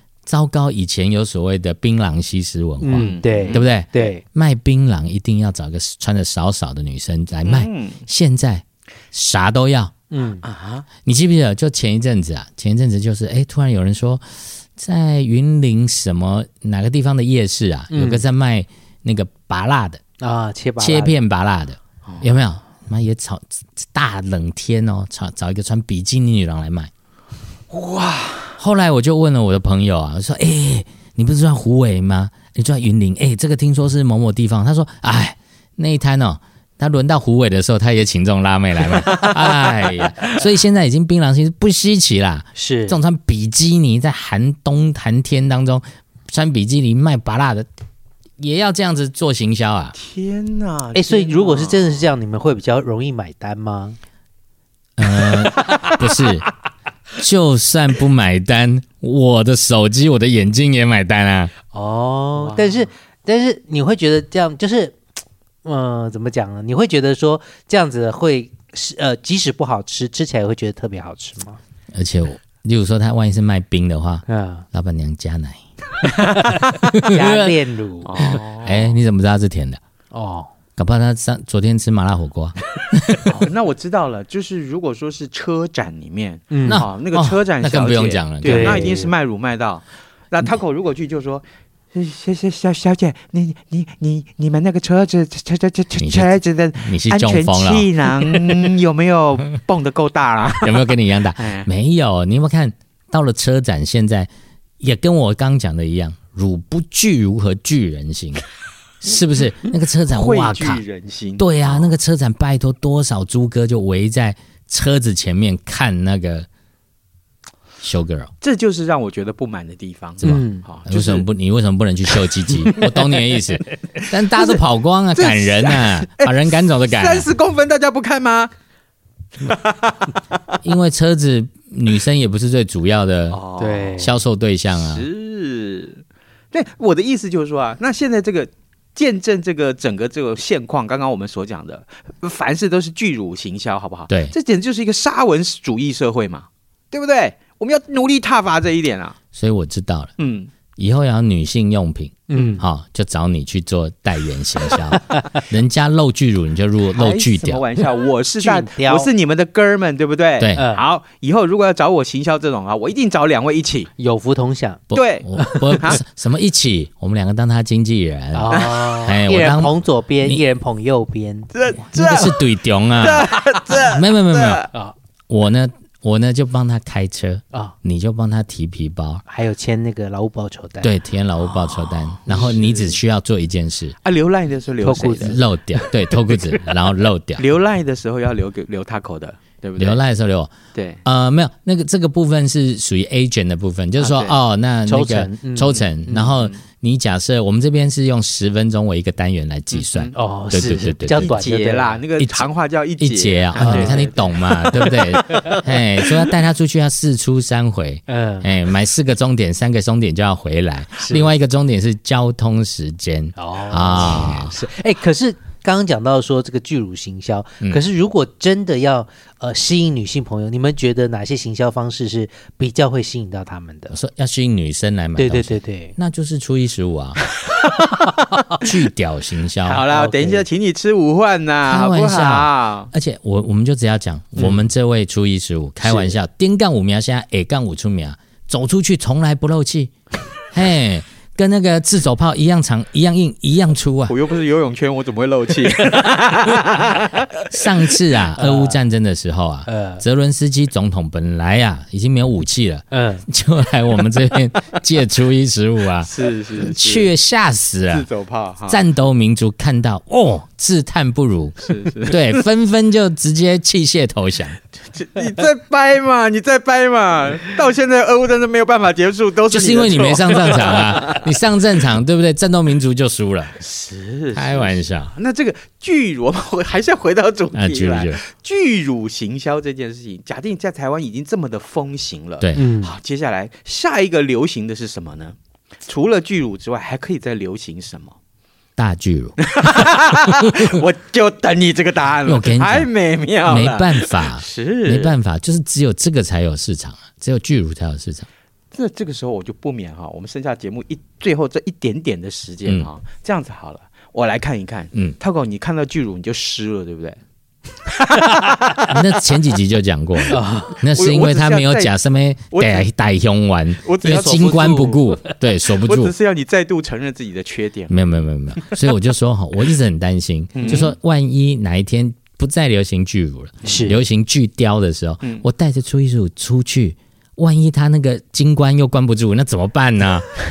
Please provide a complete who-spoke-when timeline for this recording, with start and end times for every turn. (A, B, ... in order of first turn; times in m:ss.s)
0:00.2-0:09.9 A
0:02.8-0:04.2 B
0:02.9-0:03.7 C
0:07.4-0:08.0 C
0:10.1-0:10.4 B
0:10.4-0:10.8 C
0:11.0-0:20.0 A
0:17.9-0:18.2 B
0:20.2-0:21.2 B
0:20.8-0:26.9 A
0:22.1-0:22.3 C
0:27.7-0:28.6 C
0:28.6-0:47.7 A
0:42.6-0:43.0 B
0:48.4-0:49.9 A
0:49.9-0:52.1 C
0:50.9-0:54.0 B
0:55.0-0:56.5 A
0:57.2-1:01.5 A
1:01.7-1:05.0 B
1:02.3-1:02.8 C
1:05.6-1:11.6 B
1:11.9-1:15.6 A
1:14.3-1:14.6 B
1:16.9-1:18.3 B
1:16.9-1:17.4 A
1:18.0-1:19.0 C
1:18.2-1:19.8 A
1:20.1-1:20.5 B
1:20.8-1:23.4 A
1:23.2-1:41.7 C
1:26.5-1:26.8 B
1:26.6-1:28.9 A
1:28.4-1:29.1 B
1:36.0-1:38.7 A
1:40.6-1:44.3 A
1:44.8-1:48.4 A
1:49.0-1:50.8 A
1:50.1-1:51.9 C
1:51.4-1:56.5 A
1:57.8-1:58.3 A
1:58.4-2:01.3 C
2:00.2-2:07.3 A
2:00.2-2:00.6 B
2:02.2-2:04.6 C
2:05.1-2:08.5 C
2:09.4-2:10.2 C
2:10.6-2:13.4 A
2:13.3-2:14.1 C
2:13.6-2:14.1 B
2:14.0-2:15.0 A
2:14.7-2:29.2 C
2:24.1-2:24.3 A
2:29.3-2:30.1 A
2:30.2-2:30.5 C
2:30.8-2:37.6 A
2:32.3-2:32.6 B
2:37.0-2:43.9 C
2:38.4-2:39.1 B
2:40.4-2:40.7 A
2:40.6-2:40.8 B
2:44.0-2:44.8 B
2:44.9-2:50.4 A
2:44.9-2:46.0 C
2:45.4-2:45.9 B
2:48.3-2:51.5 B
2:48.5-2:49.1 C
2:51.5-2:52.4 C
2:51.8-2:54.7 A
2:53.0-2:54.7 C
2:55.3-2:59.2 A
2:59.2-3:00.9 B
3:00.8-3:04.0 A
3:01.8-3:03.0 C
3:04.0-3:05.4 C
3:04.8-3:05.4 B
3:05.1-3:07.4 A
3:06.1-3:06.8 C
3:07.4-3:10.0 C
3:09.8-3:10.5 A
3:10.7-3:11.0 C
3:11.0-3:21.4 A
3:14.0-3:14.4 C
3:14.8-3:16.3 B
3:16.3-3:16.6 C
3:19.7-3:20.1 C
3:20.1-3:22.0 B
3:21.1-3:25.6 C
3:22.2-3:22.5 A
3:23.0-3:34.6 A
3:23.5-3:24.2 B
3:28.1-3:28.5 B
3:33.4-3:44.0 B
3:43.9-3:47.2 A
3:45.2-3:45.9 B
3:47.5-3:48.7 C
3:48.6-3:49.8 A
3:49.6-3:52.9 C
3:49.9-3:50.4 B
3:51.6-3:59.9 A
4:00.5-4:04.1 A
4:04.1-4:08.0 C
4:07.5-4:18.1 A
4:08.4-4:08.8 B
4:09.7-4:10.0 B
4:12.9-4:13.2 B
4:16.0-4:17.1 C
4:17.9-4:18.8 C
4:18.7-4:24.6 A
4:21.6-4:22.4 C
4:24.9-4:31.3 C
4:29.5-4:33.6 A
4:33.6-4:48.1 C
4:34.3-4:35.1 A
4:37.5-4:38.2 A
4:42.4-4:42.6 A
4:42.5-4:42.9 B
4:48.8-4:49.4 A
4:49.4-4:55.1 C
4:52.2-4:52.9 A
4:53.4-4:58.3 A
4:58.7-5:07.2 C
5:07.9-5:08.9 C
5:08.8-5:16.1 A
5:10.3-5:10.8 B
5:10.3-5:11.9 C
5:12.5-5:12.9 C
5:13.8-5:18.0 C
5:17.9-5:30.3 A
5:20.6-5:20.9 C
5:23.6-5:24.0 B